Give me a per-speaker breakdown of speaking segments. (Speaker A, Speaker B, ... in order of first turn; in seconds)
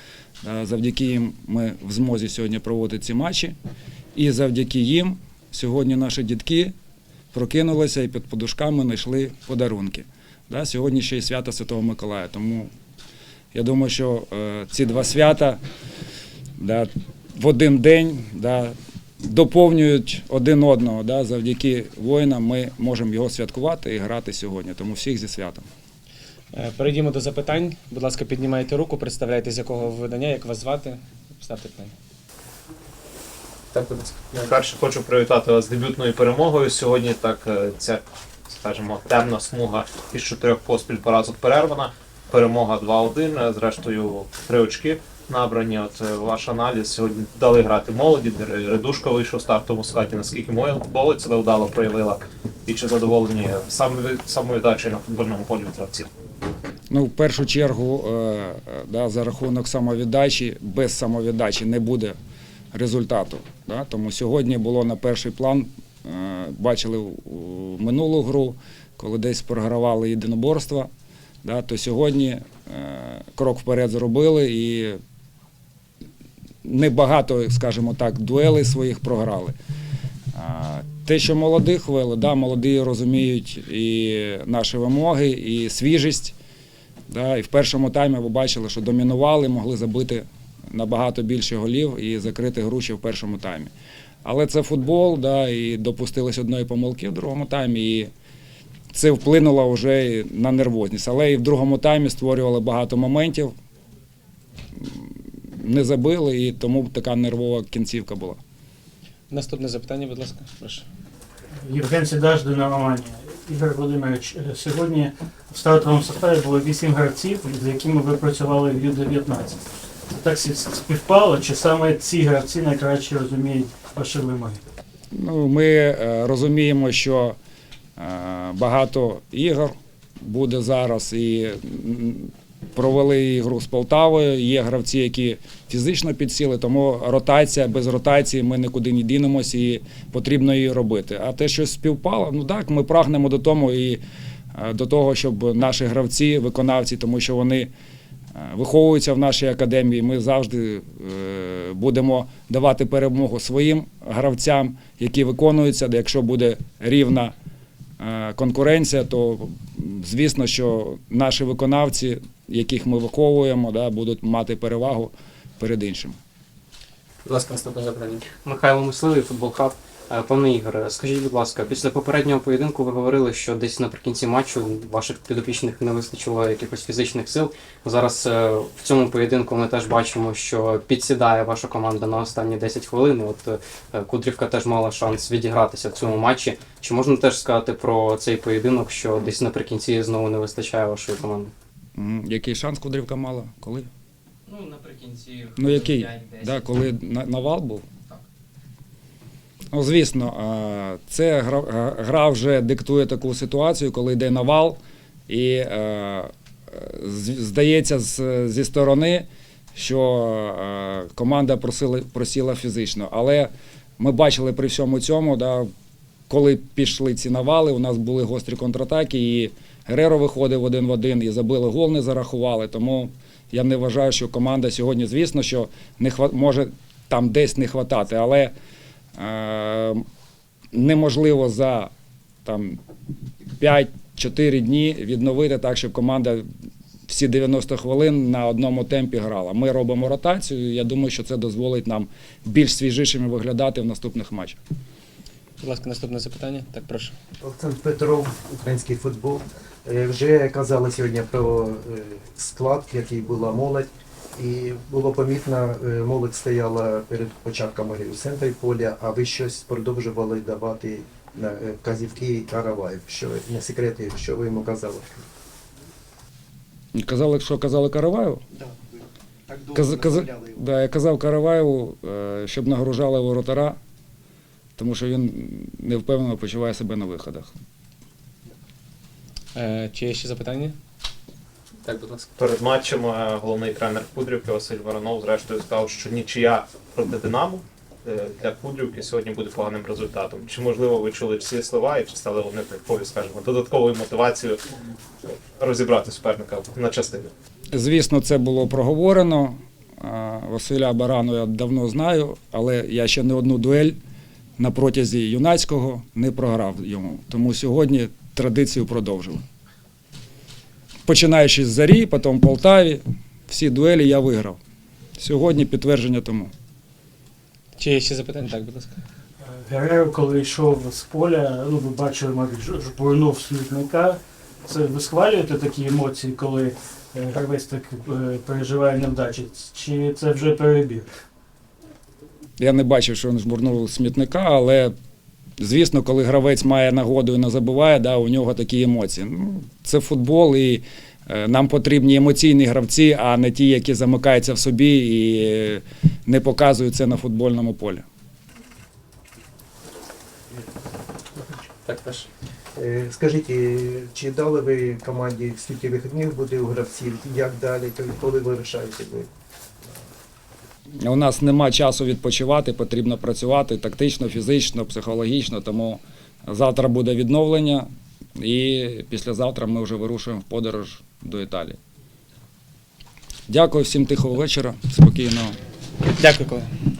Speaker A: 0.4-3.6, 4.2-6.7, 7.3-12.7, 13.5-15.6, 16.6-25.7, 56.9-62.2, 62.7-70.9, 71.4-75.0, 76.7-79.5, 80.3-86.4, 87.1-93.7, 94.2-98.1, 98.9-103.5, 104.8-108.4, 125.1-127.4, 128.0-144.0, 144.5-147.7, 148.3-157.3, 158.0-166.2, 192.0-193.9, 195.6-197.9, 199.7-215.7, 216.3-228.5, 229.2-230.0, 230.7-231.9, 232.4-232.8, 233.6-236.5, 237.1-244.6, 266.9-268.4, 269.8-273.8, 274.8-277.5, 297.7-304.0, 304.6-309.4, 311.1-314.6, 315.2-316.5, 332.6-334.9, 335.6-348.1, 361.0-371.8, 373.5-375.6
Speaker B: 26.5-31.9, 109.3-110.9, 245.6-247.2, 279.6-280.8, 317.8-319.0, 376.2-376.7
Speaker C: 34.3-56.1, 282.4-294.6, 295.6-297.3
Speaker D: 111.6-124.6, 319.5-331.1
Speaker E: 167.3-191.5, 194.5-196.7, 281.8-282.3, 351.8-352.3
Speaker F: 247.4-265.3, 269.5-270.6, 352.8-359.3